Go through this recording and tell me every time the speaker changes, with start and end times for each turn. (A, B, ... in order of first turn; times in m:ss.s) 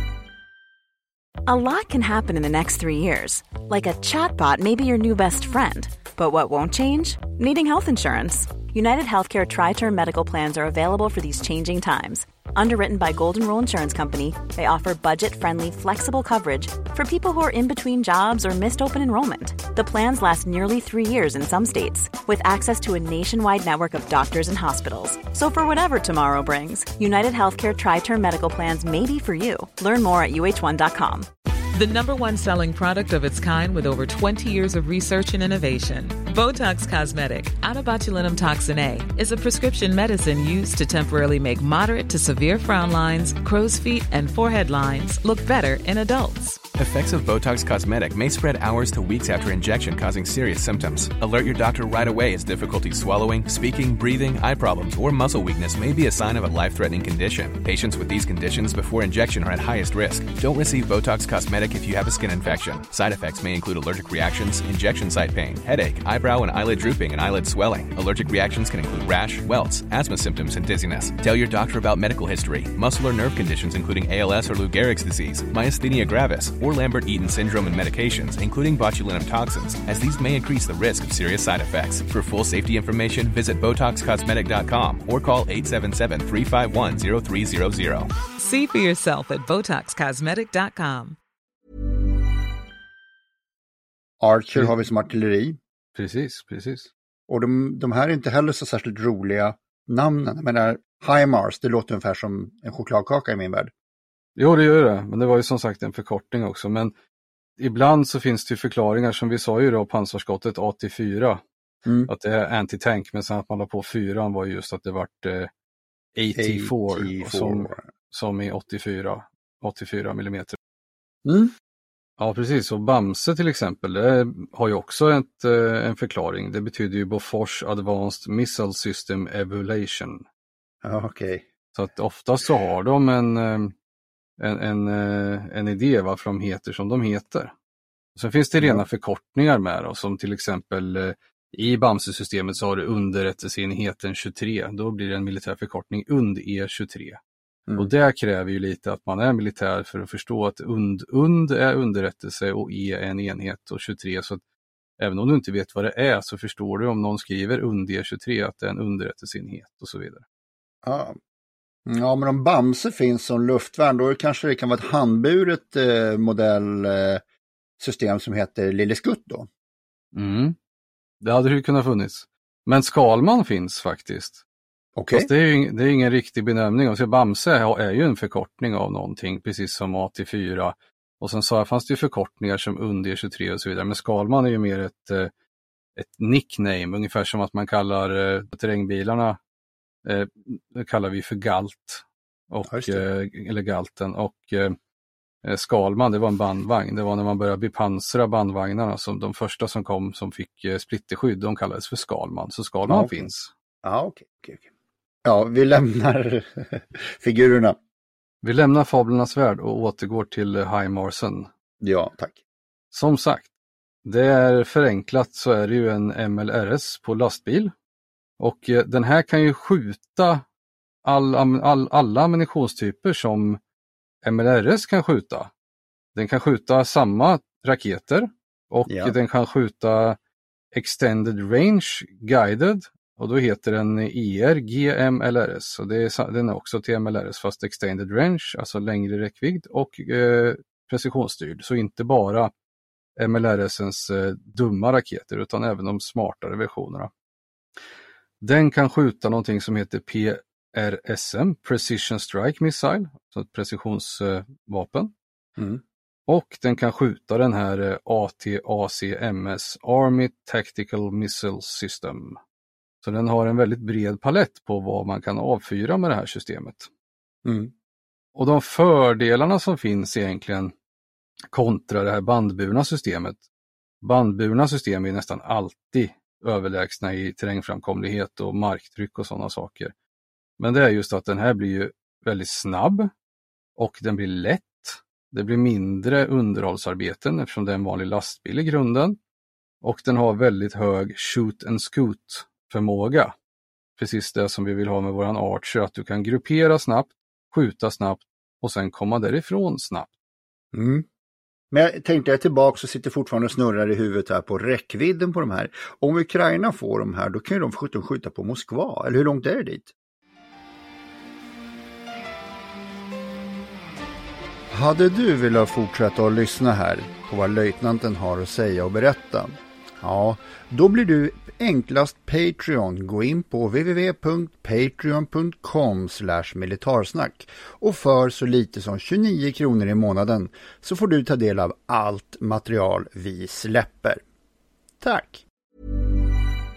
0:01.4-0:31.3 A
0:31.7-0:46.6 B
0:46.7-1:28.1 C
1:28.4-1:31.2 B
1:34.2-1:35.6 D
1:35.9-1:36.9 E
1:37.3-1:43.7 D
1:44.4-1:46.9 E
1:47.6-1:51.4 E
1:51.8-1:52.1 D
1:52.1-1:55.5 E
1:56.1-2:00.6 E
1:56.4-1:57.9 D
2:01.2-2:01.5 D
2:02.2-2:10.2 E
2:10.8-2:11.5 D
2:11.7-2:13.7 E
2:14.4-2:17.5 E
2:18.2-2:27.2 E
2:18.6-2:18.9 D
2:27.8-2:34.4 E
2:35.0-2:40.2 E
2:40.8-2:41.2 D
2:41.8-2:47.2 D
2:47.8-2:49.5 D
2:50.1-2:50.6 E
2:51.2-2:54.4 E
2:55.0-2:55.3 D
2:55.1-3:05.3 E
3:06.0-3:09.4 E
3:10.0-3:14.7 E
3:12.7-3:13.0 D
3:15.4-3:23.5 E
3:22.8-3:23.3 D
3:23.8-3:24.7 D
3:25.2-3:27.8 D
3:28.4-3:31.5 E
3:31.8-3:32.4 D
3:32.9-3:33.5 E
3:34.0-3:37.7 E
3:38.4-3:40.4 E
3:41.0-3:43.6 E
3:44.2-3:45.5 E
3:46.1-3:50.2 E
3:48.9-3:49.2 D
3:50.7-4:02.5 E
4:03.2-4:07.1 E
4:08.4-4:15.1 E
4:16.3-4:22.4 E
4:23.0-4:26.9 E
4:27.4-4:27.7 D
4:28.3-4:30.7 E
4:31.5-4:33.4 E
4:34.0-4:39.9 E
4:40.6-4:43.1 E
4:43.8-4:49.2 E
4:49.8-4:53.3 E
4:54.0-5:00.1 E
5:00.7-5:01.0 D
5:01.7-5:09.9 D
5:14.7-5:34.2 D
5:35.0-5:35.4 D